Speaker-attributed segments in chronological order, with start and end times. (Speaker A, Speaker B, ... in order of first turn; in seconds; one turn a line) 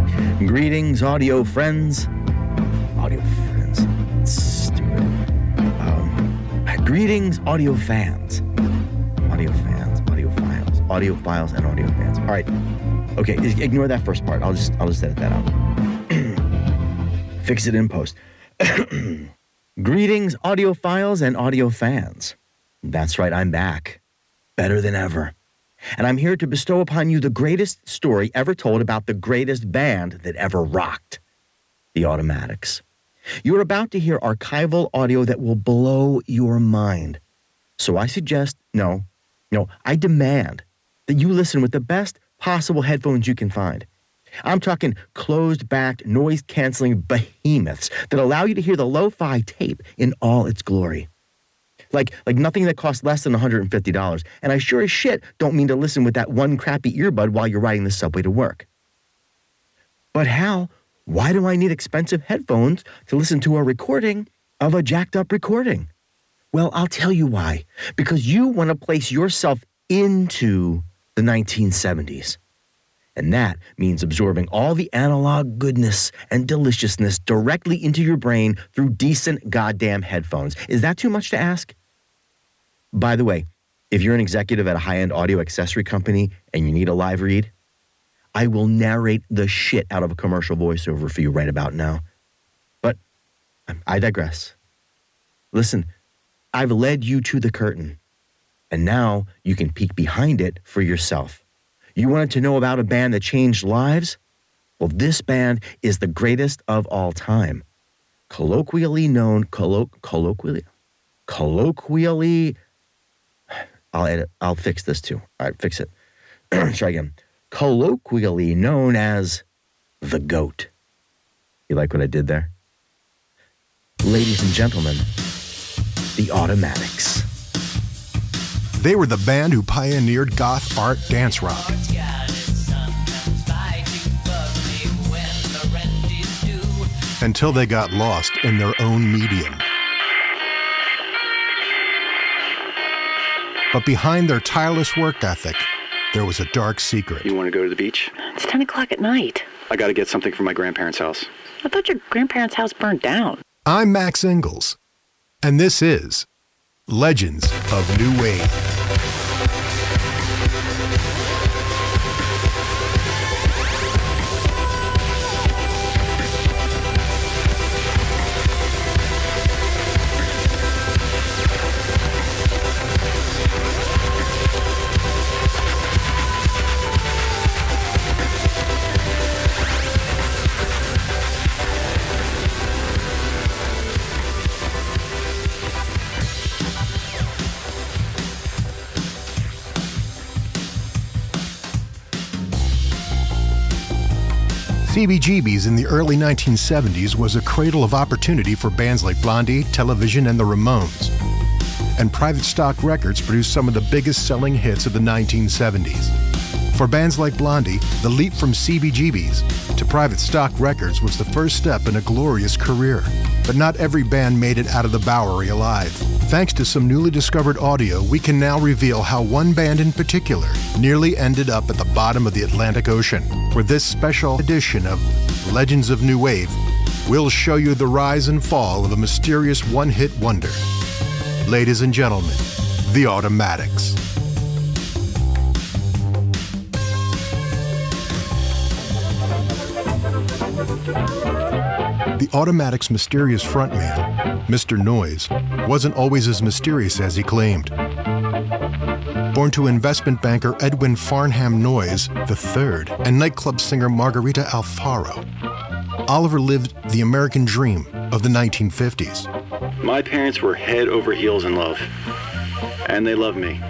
Speaker A: 0.4-2.1
Speaker A: 3.0-5.1
Speaker A: 5.8-8.4
Speaker A: 9.3-12.5
Speaker A: 13.2-15.5
Speaker A: 16.1-16.4
Speaker A: 17.4-24.0
Speaker A: 24.6-25.3
Speaker A: 26.0-31.2
Speaker A: 31.9-32.8
Speaker A: 33.4-37.2
Speaker A: 37.8-43.9
Speaker A: 44.4-51.1
Speaker A: 51.9-58.6
Speaker A: 60.1-65.9
Speaker A: 66.5-72.4
Speaker A: 73.2-81.7
Speaker A: 82.9-87.5
Speaker A: 88.3-92.0
Speaker A: 93.7-94.5
Speaker A: 95.5-95.9
Speaker A: 96.5-98.0
Speaker A: 98.7-101.4
Speaker A: 102.0-104.2
Speaker A: 104.8-107.6
Speaker A: 108.3-110.7
Speaker A: 111.3-112.6
Speaker A: 113.5-115.9
Speaker A: 116.5-119.4
Speaker A: 120.0-120.7
Speaker A: 121.7-122.5
Speaker A: 124.0-125.1
Speaker A: 126.2-127.3
Speaker B: 128.8-131.7
Speaker C: 131.7-136.8
Speaker B: 137.2-139.6
Speaker B: 143.7-147.3
Speaker D: 147.2-148.1
Speaker C: 148.2-149.5
Speaker D: 149.7-151.3
Speaker C: 151.6-153.4
Speaker B: 153.7-154.8
Speaker B: 155.4-156.2
Speaker B: 156.9-158.5
Speaker B: 194.8-201.1
Speaker B: 202.0-206.1
Speaker B: 206.7-230.6
Speaker B: 231.4-234.0
Speaker B: 242.2-247.7
Speaker B: 249.3-255.2
Speaker B: 256.1-259.3
Speaker D: 259.8-261.9
Speaker D: 262.9-263.6